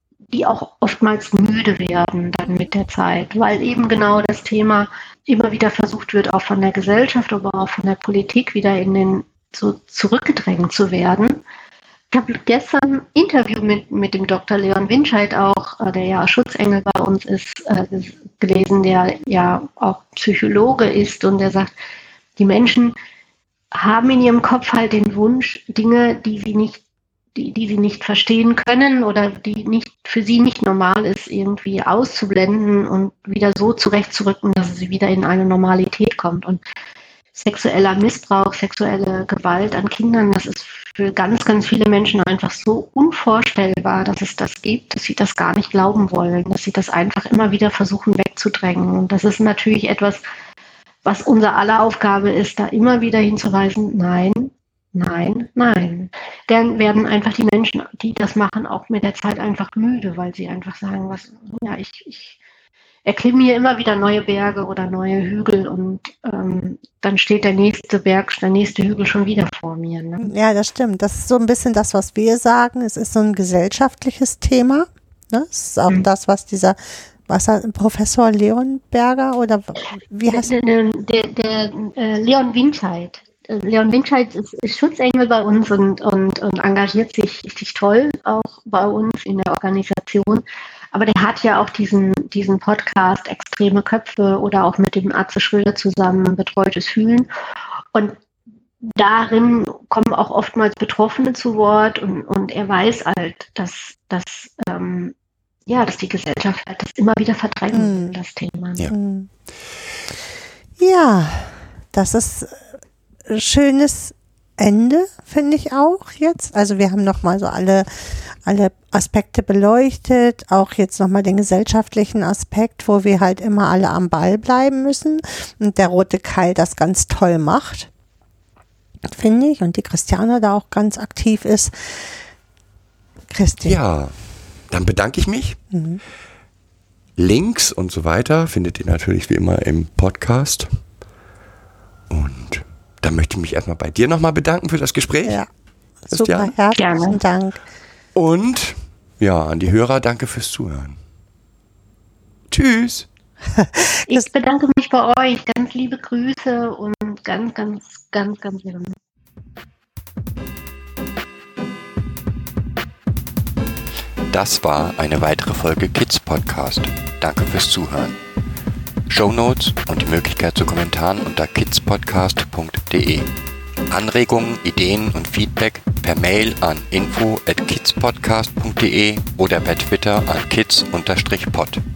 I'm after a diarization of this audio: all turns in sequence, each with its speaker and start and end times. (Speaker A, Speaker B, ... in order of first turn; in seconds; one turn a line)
Speaker A: 0.3-11.4
Speaker A: 12.1-21.7
Speaker A: 22.4-22.9
Speaker A: 23.7-26.8
Speaker A: 27.3-36.6
Speaker A: 37.3-50.2
Speaker A: 51.0-62.4
Speaker A: 63.0-70.3
Speaker B: 70.2-80.5
Speaker A: 80.3-97.3
Speaker A: 98.8-105.1
Speaker A: 105.7-108.9
Speaker B: 107.7-108.1
Speaker B: 108.9-109.3
Speaker B: 110.8-112.7
Speaker B: 113.3-127.9
Speaker B: 129.1-132.1
Speaker B: 133.3-133.8
Speaker C: 133.6-134.1
Speaker C: 134.7-135.6
Speaker B: 135.7-136.0
Speaker C: 137.2-140.7
Speaker C: 142.1-145.4
Speaker B: 146.1-147.6
Speaker C: 146.1-146.5
Speaker A: 146.7-147.2
Speaker C: 148.1-151.0
Speaker C: 152.5-153.1
Speaker B: 153.5-154.2
Speaker A: 154.0-159.0
Speaker C: 164.3-168.2
Speaker C: 169.1-173.3
Speaker C: 173.9-181.8